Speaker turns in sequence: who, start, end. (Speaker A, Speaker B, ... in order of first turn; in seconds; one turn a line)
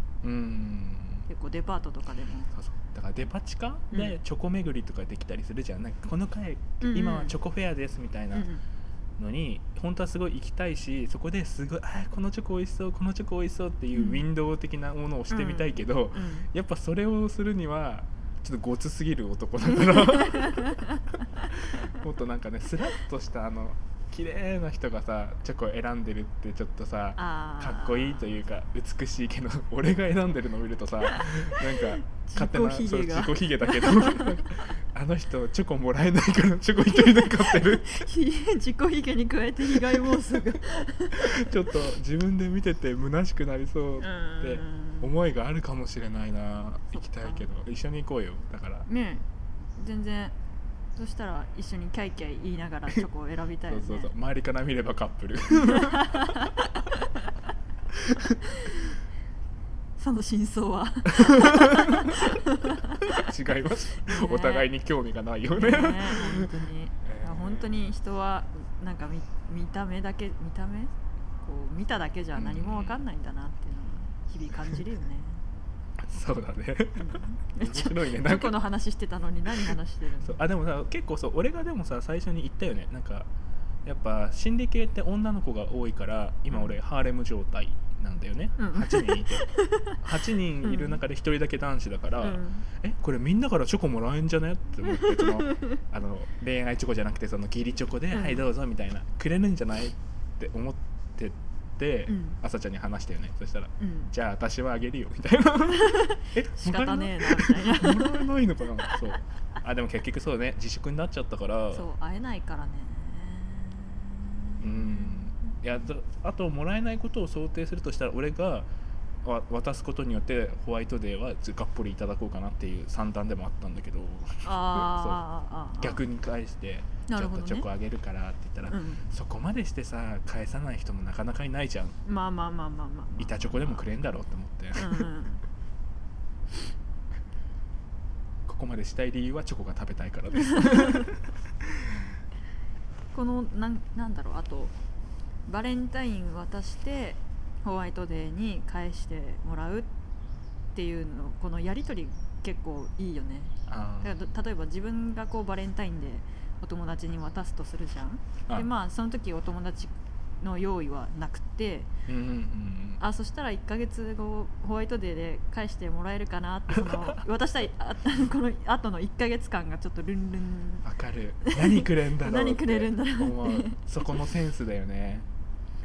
Speaker A: 0.2-1.3
Speaker B: 1.3-2.5
Speaker A: 2.5-8.5
Speaker B: 6.8-7.3
Speaker B: 8.3-8.6
Speaker A: 9.2-20.9
Speaker B: 13.9-14.2
Speaker B: 15.3-16.5
Speaker B: 19.9-21.0
Speaker A: 21.4-38.0
Speaker B: 27.2-28.4
Speaker B: 31.1-34.4
Speaker B: 36.9-41.5
Speaker A: 39.7-40.2
Speaker A: 41.1-48.9
Speaker B: 44.0-45.1
Speaker B: 47.0-47.5
Speaker B: 48.9-49.2
Speaker B: 49.8-50.3
Speaker B: 51.0-54.1
Speaker A: 53.7-56.3
Speaker B: 55.5-57.0
Speaker A: 57.9-58.4
Speaker B: 58.5-58.9
Speaker B: 60.0-63.3
Speaker A: 61.1-62.2
Speaker A: 63.0-66.5
Speaker B: 64.0-64.7
Speaker B: 65.5-75.4
Speaker A: 67.0-67.9
Speaker A: 72.3-73.0
Speaker A: 76.1-78.6
Speaker B: 77.0-80.4
Speaker A: 79.5-83.3
Speaker A: 83.8-111.9
Speaker B: 88.6-90.0
Speaker B: 90.6-91.0
Speaker B: 92.2-92.7
Speaker B: 94.9-95.8
Speaker B: 98.1-98.4
Speaker B: 102.1-102.4
Speaker B: 103.8-104.1
Speaker B: 105.7-108.2
Speaker B: 111.7-115.6
Speaker A: 114.6-118.7
Speaker A: 119.2-125.2
Speaker B: 124.4-126.0
Speaker A: 125.8-132.0
Speaker B: 127.1-127.7
Speaker B: 128.7-129.0
Speaker B: 132.0-133.8
Speaker A: 133.2-135.1
Speaker B: 134.8-135.4
Speaker A: 138.5-142.0
Speaker B: 140.5-141.1
Speaker B: 143.1-144.8
Speaker B: 145.5-149.9
Speaker B: 150.7-161.9
Speaker A: 153.7-154.2
Speaker A: 162.1-163.0
Speaker B: 163.0-170.9
Speaker A: 166.8-167.0
Speaker A: 170.8-175.3
Speaker B: 171.4-173.8